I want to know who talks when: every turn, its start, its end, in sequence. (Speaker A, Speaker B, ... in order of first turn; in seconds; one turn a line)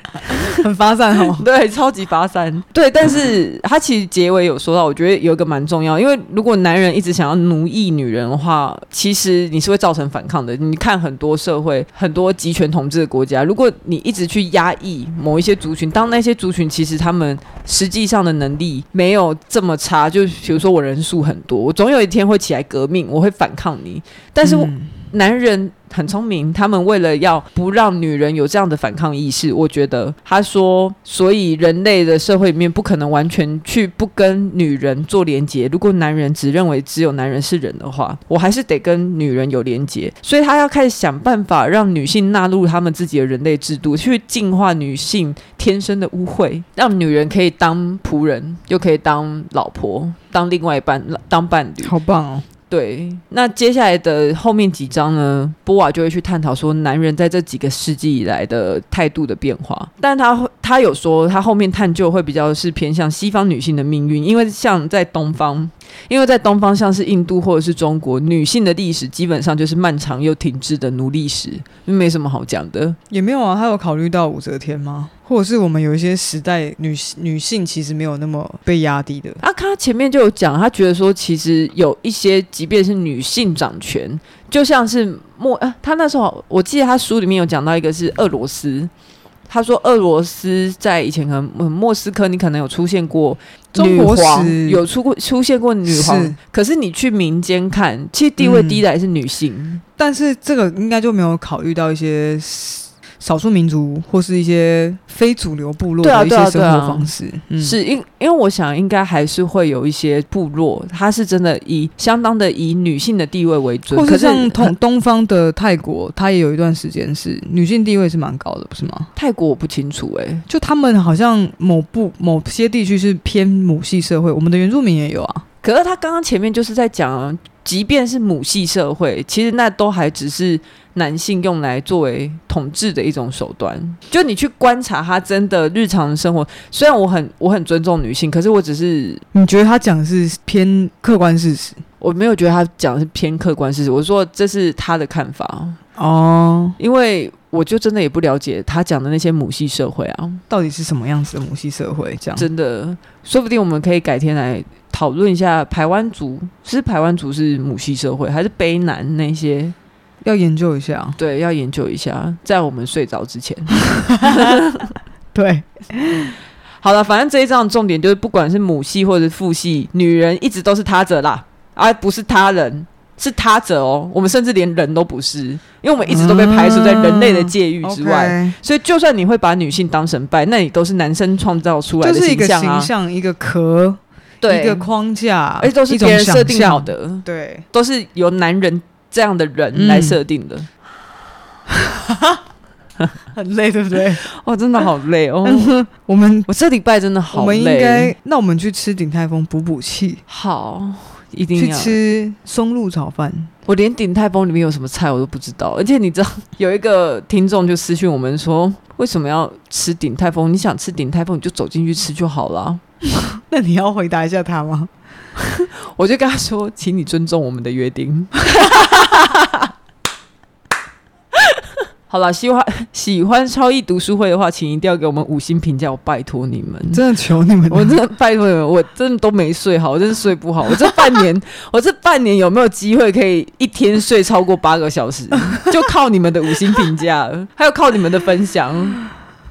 Speaker A: 0.5-1.4
Speaker B: 1.3-51.9
Speaker A: 24.4-24.9
Speaker A: 51.8-52.5
Speaker B: 52.7-73.0
Speaker A: 73.1-79.4
Speaker B: 79.4-88.9
Speaker B: 89.5-99.8
Speaker A: 93.7-94.8
Speaker A: 95.9-96.4
Speaker A: 98.4-98.8
Speaker A: 100.0-107.8
Speaker B: 106.0-114.7
Speaker A: 113.9-119.1
Speaker B: 119.2-120.4
Speaker A: 120.5-125.4
Speaker B: 125.6-139.2
Speaker A: 139.3-141.8
Speaker B: 142.0-145.8
Speaker A: 145.9-146.8
Speaker B: 146.8-150.4
Speaker A: 150.5-152.5
Speaker B: 152.4-159.7
Speaker A: 160.2-161.2
Speaker B: 161.2-164.9
Speaker A: 163.9-164.6
Speaker A: 165.3-166.4
Speaker B: 166.8-182.9
Speaker A: 176.1-178.6
Speaker A: 182.0-187.6
Speaker B: 184.4-184.9
Speaker B: 185.6-190.7
Speaker A: 189.7-190.2
Speaker A: 191.7-192.4
Speaker A: 193.3-194.2
Speaker B: 194.2-195.7
Speaker A: 195.4-196.5
Speaker B: 196.5-198.1
Speaker A: 197.3-200.2
Speaker B: 200.3-202.0
Speaker A: 201.5-203.5
Speaker B: 203.7-212.8
Speaker A: 213.1-214.9
Speaker B: 215.4-219.7
Speaker B: 222.1-227.0
Speaker A: 226.9-228.0
Speaker B: 227.7-239.0